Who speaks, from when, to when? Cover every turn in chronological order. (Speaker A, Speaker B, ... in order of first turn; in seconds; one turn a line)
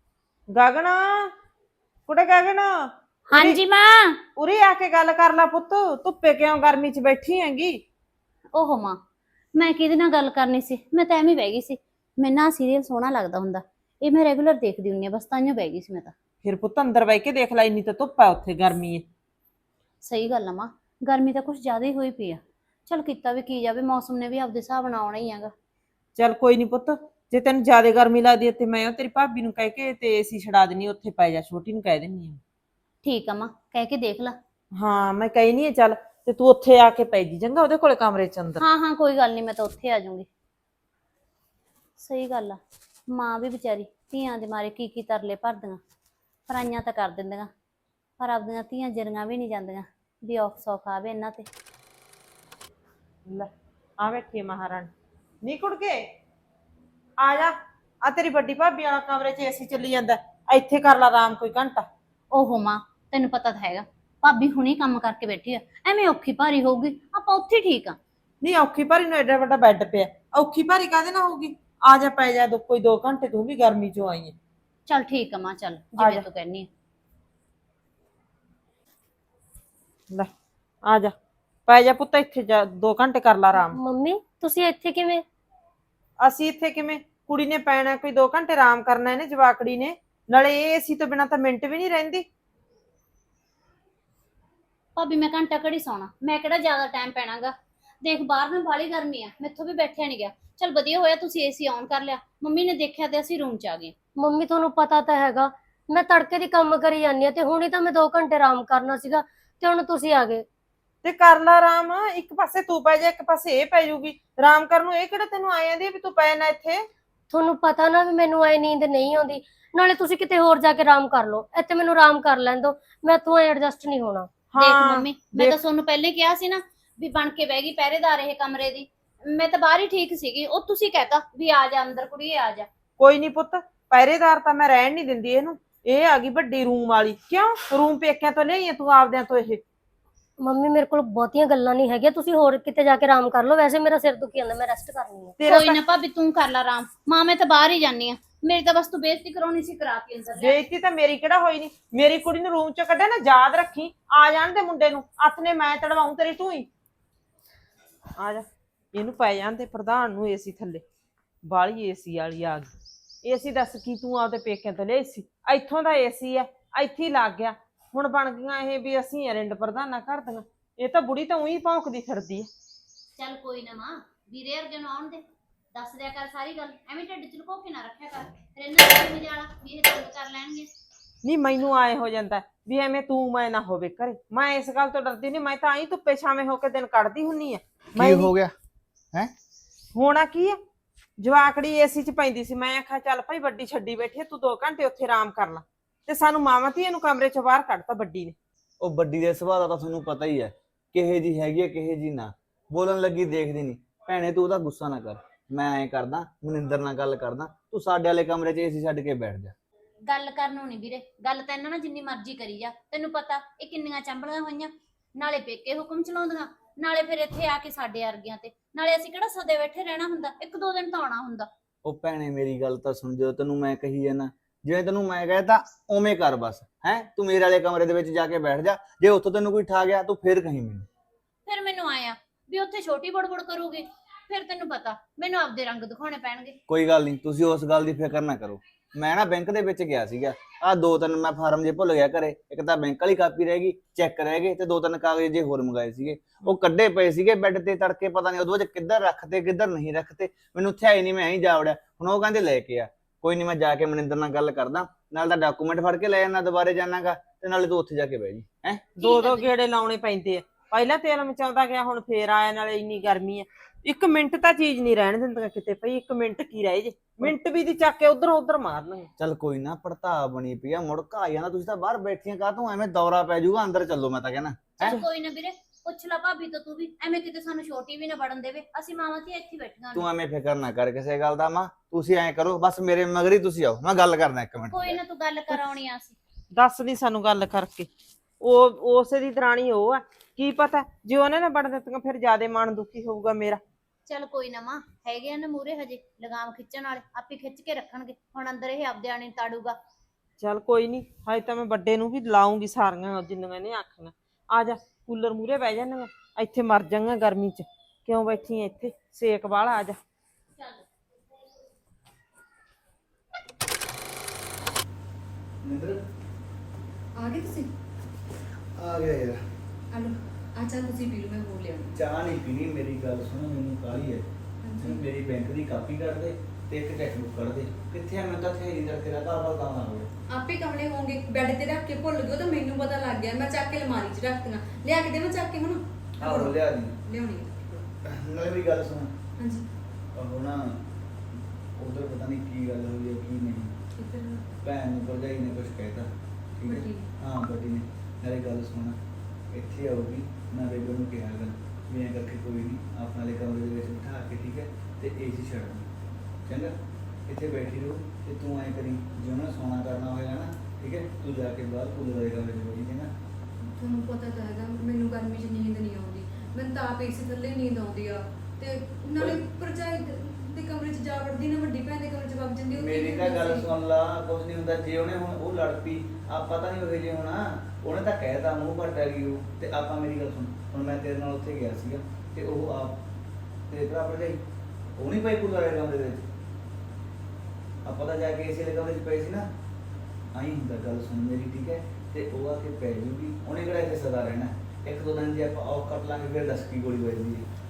Speaker A: 0.5-1.3
Speaker A: 2.1-3.6
Speaker B: 3.3-4.2
Speaker A: 4.3-7.8
Speaker B: 8.5-9.0
Speaker B: 9.5-16.1
Speaker A: 16.4-19.1
Speaker B: 20.0-25.5
Speaker A: 26.2-32.4
Speaker B: 33.0-34.4
Speaker A: 34.8-38.6
Speaker B: 38.6-40.3
Speaker B: 42.0-45.8
Speaker B: 46.5-47.5
Speaker B: 48.2-51.5
Speaker A: 53.3-54.9
Speaker A: 55.4-56.1
Speaker A: 57.2-61.9
Speaker B: 62.3-68.0
Speaker A: 68.4-74.3
Speaker B: 74.9-76.7
Speaker A: 76.0-76.2
Speaker A: 80.8-81.1
Speaker A: 81.7-83.8
Speaker C: 83.7-85.2
Speaker A: 86.2-92.2
Speaker B: 95.0-103.9
Speaker C: 104.2-110.4
Speaker A: 111.0-116.8
Speaker C: 117.3-124.3
Speaker A: 124.5-125.5
Speaker B: 124.6-132.7
Speaker A: 133.0-139.6
Speaker C: 140.4-145.4
Speaker A: 145.4-145.8
Speaker B: 145.4-150.6
Speaker A: 150.4-156.7
Speaker A: 158.2-160.8
Speaker A: 161.4-162.7
Speaker A: 163.2-172.5
Speaker B: 173.2-175.2
Speaker B: 175.7-180.7
Speaker A: 181.2-188.3
Speaker D: 187.9-188.5
Speaker A: 189.9-190.6
Speaker A: 191.2-198.3
Speaker D: 198.8-209.5
Speaker B: 210.1-221.5
Speaker D: 221.8-230.9
Speaker B: 231.4-236.6
Speaker D: 236.7-258.9
Speaker A: 259.0-269.1
Speaker B: 259.0-259.4
Speaker D: 269.2-274.9
Speaker B: 274.8-280.1
Speaker D: 279.9-285.0
Speaker B: 284.7-286.1
Speaker A: 286.5-287.9
Speaker A: 288.4-293.6
Speaker B: 294.1-299.8
Speaker A: 300.4-310.0
Speaker D: 315.6-316.0
Speaker E: 317.2-317.7
Speaker D: 318.8-319.4
Speaker E: 319.9-322.0
Speaker D: 321.9-324.2
Speaker E: 324.6-325.0
Speaker D: 324.8-330.1
Speaker E: 330.3-337.9
Speaker D: 336.2-336.9
Speaker D: 338.0-339.1
Speaker E: 339.4-339.6
Speaker D: 340.1-340.9
Speaker D: 341.8-343.8
Speaker E: 343.9-344.5
Speaker D: 344.6-349.0
Speaker E: 346.7-347.1
Speaker D: 349.5-355.9
Speaker D: 356.4-363.1
Speaker E: 363.6-373.7
Speaker D: 369.2-369.4
Speaker D: 372.7-383.0
Speaker D: 383.7-384.4
Speaker D: 385.0-386.3
Speaker D: 387.8-389.5
Speaker D: 390.3-397.4